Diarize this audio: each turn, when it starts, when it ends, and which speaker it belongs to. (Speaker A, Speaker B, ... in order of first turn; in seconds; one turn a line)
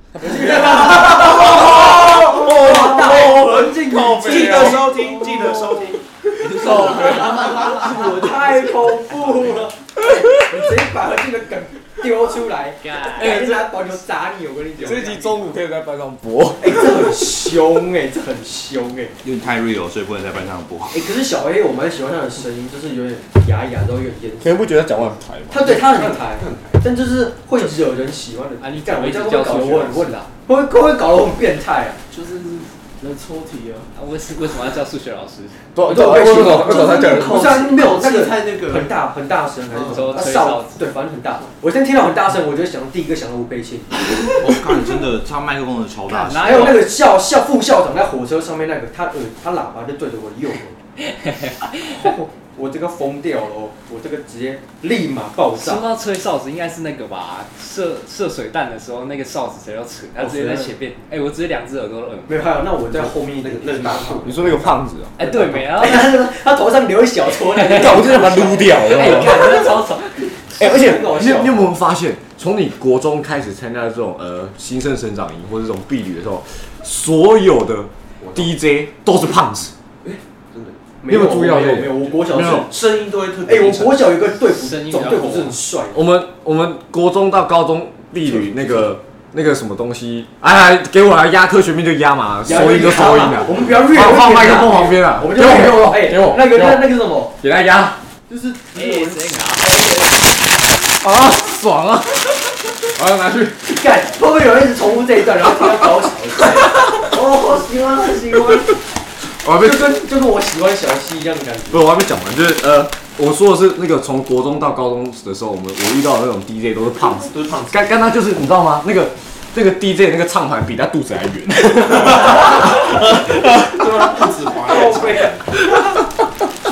Speaker A: 0.1-5.8
Speaker B: 0.2-5.1
Speaker C: 4.0-6.0
Speaker D: 4.2-4.8
Speaker D: 5.4-7.9
Speaker A: 6.4-8.3
Speaker B: 6.7-15.5
Speaker E: 12.8-13.4
Speaker A: 13.2-13.8
Speaker E: 14.8-15.3
Speaker A: 14.8-17.1
Speaker B: 16.6-19.1
Speaker D: 19.2-21.1
Speaker B: 20.9-24.7
Speaker A: 24.4-25.8
Speaker B: 25.5-32.0
Speaker C: 25.7-26.8
Speaker E: 28.6-30.3
Speaker F: 32.1-33.9
Speaker E: 33.9-35.6
Speaker A: 35.7-37.6
Speaker B: 35.8-44.0
Speaker F: 36.6-38.9
Speaker F: 39.7-40.1
Speaker E: 39.8-40.8
Speaker D: 44.4-46.8
Speaker E: 46.1-46.9
Speaker B: 46.4-50.8
Speaker E: 51.0-52.1
Speaker B: 51.8-55.9
Speaker E: 55.5-62.4
Speaker B: 60.2-60.7
Speaker B: 62.3-64.5
Speaker C: 62.9-64.7
Speaker A: 64.2-65.2
Speaker E: 65.2-66.1
Speaker B: 65.7-69.6
Speaker E: 67.6-70.6
Speaker A: 67.7-69.6
Speaker B: 70.6-71.6
Speaker A: 70.6-79.7
Speaker C: 78.2-78.5
Speaker C: 80.0-80.8
Speaker B: 81.0-82.8
Speaker A: 81.1-82.7
Speaker C: 82.0-84.2
Speaker B: 83.5-86.0
Speaker E: 84.3-85.5
Speaker A: 85.9-98.0
Speaker C: 88.3-88.8
Speaker B: 92.4-97.3
Speaker B: 98.3-99.8
Speaker E: 98.7-100.2
Speaker A: 101.0-103.6
Speaker B: 103.6-108.8
Speaker A: 106.6-106.9
Speaker A: 109.3-110.0
Speaker B: 109.5-111.8
Speaker A: 111.7-122.9
Speaker C: 117.3-117.8
Speaker C: 123.1-125.6
Speaker B: 124.6-125.3